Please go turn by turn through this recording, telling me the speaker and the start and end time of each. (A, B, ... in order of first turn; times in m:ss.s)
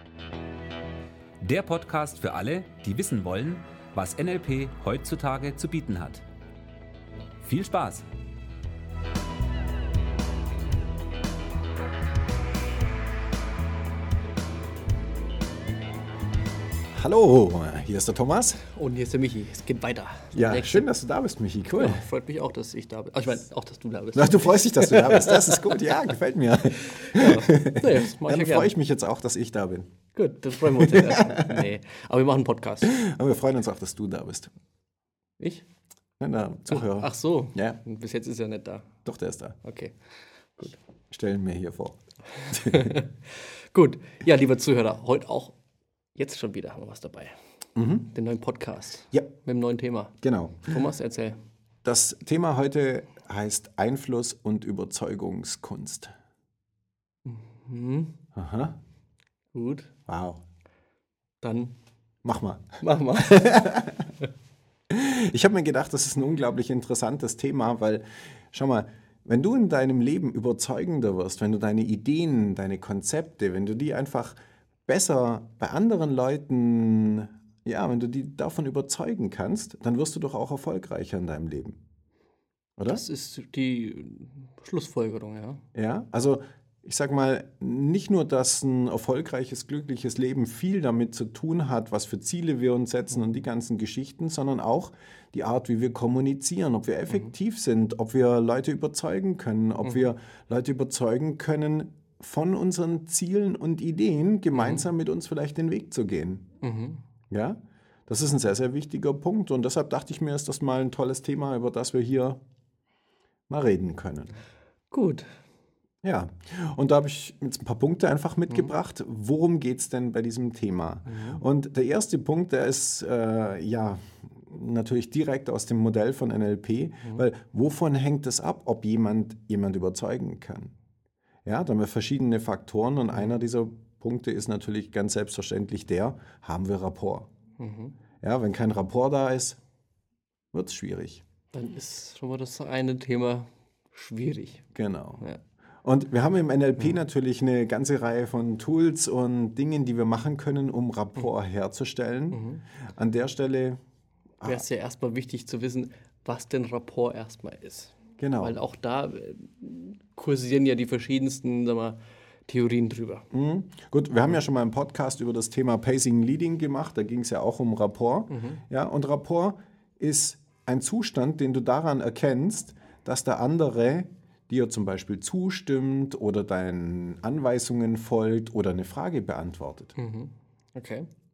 0:01.4-0:06.2 A
0:07.4-0:08.0 A
0:16.9-0:18.6 B
0:18.7-0:20.9 C
0:20.3-0:22.0 B
0:21.7-0:26.0 C
0:24.1-0:29.9 B
0:26.8-0:28.7 C
0:30.1-0:33.0 C
0:30.8-0:31.6 B
0:32.8-0:34.5 B
0:35.4-0:35.6 C
0:36.2-0:37.8 B
0:36.7-0:38.9 C
0:39.0-0:39.6 B
0:39.6-0:40.0 C
0:41.1-0:42.9 B
0:42.5-0:45.6 C
0:46.1-0:47.4 C
0:47.8-0:48.1 B
0:48.0-0:51.4 C
0:50.2-0:50.8 B
0:51.8-0:56.1 B
0:57.2-0:58.2 C
0:58.3-0:58.8 B
0:59.5-0:59.9 C
1:00.1-1:00.4 B
1:01.4-1:01.8 C
1:02.2-1:04.0 B
1:02.8-1:03.9 C
1:04.9-1:21.8 B
1:22.8-1:23.0 B
1:22.9-1:25.6 C
1:25.7-1:46.4 B
1:39.8-1:40.1 C
1:44.5-1:44.9 C
1:46.6-1:47.0 C
1:47.3-1:52.4 B
1:53.5-1:54.3 B
1:54.9-1:55.3 C
1:56.0-2:10.7 B
2:01.0-2:01.4 C
2:11.4-2:17.3 B
2:17.6-2:17.9 C
2:18.2-2:19.6 B
2:20.5-2:21.2 B
2:21.5-2:24.6 C
2:24.7-2:25.2 B
2:25.8-2:33.8 B
2:32.3-2:32.6 C
2:34.4-2:43.2 C
2:38.2-2:38.5 B
2:43.3-2:59.9 B
2:48.3-2:48.6 C
3:00.0-3:01.1 C